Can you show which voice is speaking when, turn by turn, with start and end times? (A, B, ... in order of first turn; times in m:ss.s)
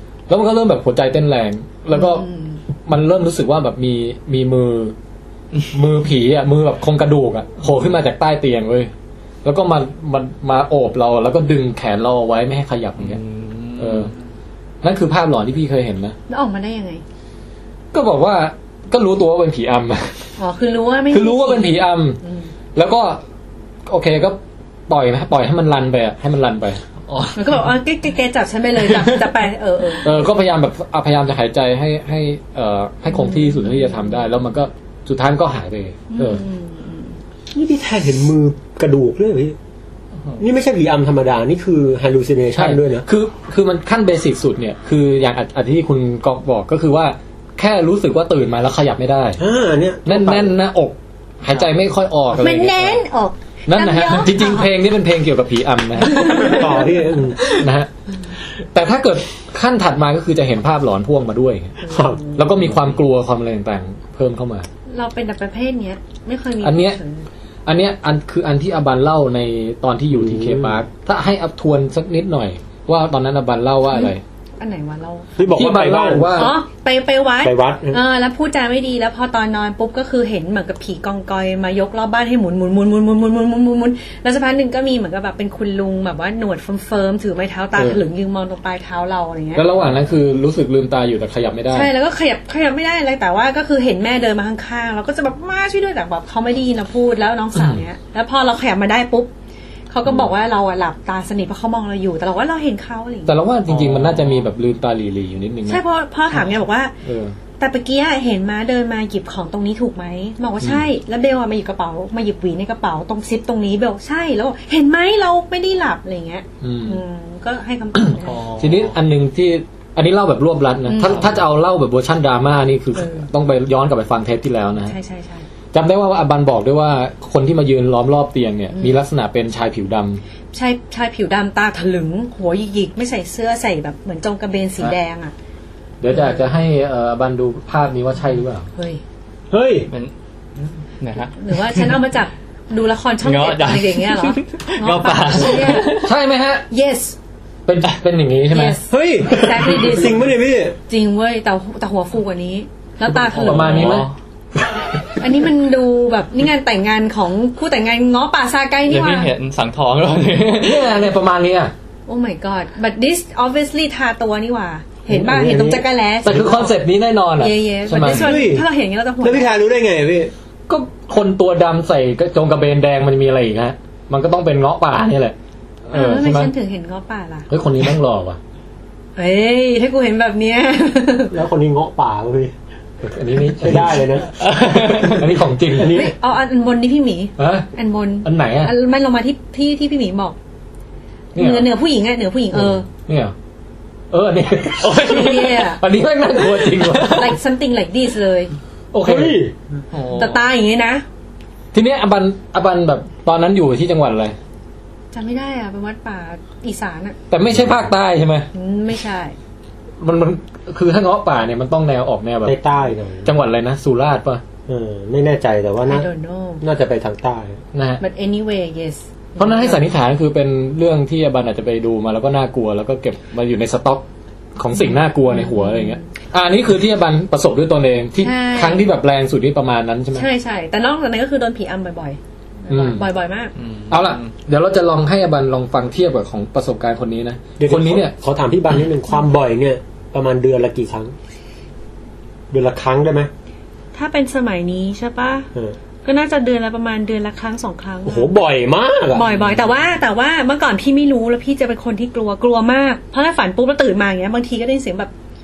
0:00.3-0:02.3 A
0:01.9-0:02.6 B
0:02.8-0:05.0 A
0:05.7-0:08.9 A
0:09.4-0:13.2 A
0:13.0-0:14.1 C
0:13.8-0:14.1 A
0:14.8-0:16.2 A
0:16.3-0:17.0 B
0:17.9-0:20.3 A
0:20.4-0:22.5 B
0:21.1-0:22.2 A
0:22.8-0:23.2 A
0:23.9-0:26.8 A
0:27.1-0:27.7 C
0:27.4-0:30.3 B
0:28.8-0:29.3 C
0:30.0-0:36.4 A
0:33.1-0:34.2 B
0:36.1-0:37.2 B
0:37.5-0:39.6 D
0:40.4-0:43.1 D
0:42.6-0:49.4 A
0:49.4-0:50.5 D
0:50.0-0:53.0 A
0:52.3-0:54.7 B
0:53.7-0:56.7 A
0:56.0-0:56.9 B
0:56.2-0:57.4 D
0:57.5-0:57.9 A
0:58.6-1:01.8 A
1:01.8-1:02.5 B
1:01.9-1:02.2 D
1:02.4-1:04.7 A
1:04.9-1:07.3 B
1:06.6-1:07.0 A
1:07.7-1:14.2 A
1:10.1-1:10.8 D
1:13.9-1:15.4 B
1:15.4-1:16.6 D
1:15.5-1:16.6 A
1:16.3-1:29.7 B
1:17.4-1:18.0 D
1:29.6-1:31.9 A
1:31.7-1:39.3 B
1:37.5-1:37.8 A
1:39.9-1:43.4 B
1:43.3-1:45.8 A
1:43.8-1:44.4 C
1:45.7-1:47.0 B
1:47.0-1:47.4 A
1:47.6-1:58.5 B
1:56.6-1:57.0 A
1:58.0-2:05.0 A
1:58.2-1:58.9 C
2:00.9-2:01.3 B
2:01.0-2:01.3 C
2:03.0-2:03.3 B
2:04.8-2:05.5 B
2:05.7-2:10.2 A
2:10.5-2:15.3 B
2:16.0-2:18.7 A
2:16.1-2:16.4 B
2:18.8-2:19.0 B
2:19.5-2:19.9 D
2:19.9-2:22.0 C
2:21.4-2:26.1 B
2:23.2-2:26.1 C
2:26.0-2:26.7 A
2:26.7-2:27.2 B
2:27.7-2:28.8 A
2:28.5-2:30.3 B
2:28.9-2:30.8 D
2:30.9-2:34.0 B
2:33.2-2:34.1 C
2:33.3-2:34.1 A
2:35.2-2:39.3 B
2:38.9-2:41.0 C
2:40.6-2:41.7 A
2:42.1-2:46.8 B
2:45.1-2:45.8 D
2:46.2-2:48.4 A
2:47.4-2:49.5 B
2:48.0-2:48.7 D
2:49.2-2:50.3 D
2:50.7-2:55.4 A
2:55.9-2:56.5 A
2:55.9-2:57.5 B
2:57.5-2:58.4 A
2:59.2-3:01.3 B
3:01.3-3:02.5 D
3:03.0-3:05.2 D
3:03.1-3:06.0 A
3:04.4-3:05.2 C
3:05.7-3:06.1 D
3:05.9-3:10.4 B
3:07.4-3:07.7 A
3:08.2-3:08.7 A
3:11.4-3:11.7 A
3:11.4-3:12.9 B
3:13.1-3:13.3 A
3:14.1-3:17.4 A
3:14.8-3:15.6 C
3:14.8-3:15.8 B
3:16.8-3:18.5 B
3:18.9-3:19.4 A
3:19.0-3:19.5 D
3:19.9-3:20.4 C
3:20.1-3:21.0 B
3:21.7-3:24.4 A
3:25.1-3:27.2 B
3:27.3-3:28.5 A
3:28.5-3:29.4 B
3:30.0-3:32.6 A
3:32.4-3:33.3 D
3:33.2-3:34.4 A
3:34.7-3:36.1 D
3:35.9-3:36.6 B
3:36.6-3:37.6 D
3:37.7-3:38.0 A
3:38.0-3:39.8 B
3:39.4-3:44.0 A
3:44.6-3:50.3 A
3:44.7-3:46.0 B
3:48.2-3:48.9 B
3:50.1-3:53.5 B
3:52.7-3:53.0 A
3:53.6-3:54.3 C
3:53.9-3:58.1 A
3:57.6-4:01.1 D
4:02.5-4:03.3 D
4:03.9-4:05.5 B
4:06.0-4:08.4 B
4:08.1-4:09.3 D
4:09.1-4:15.1 B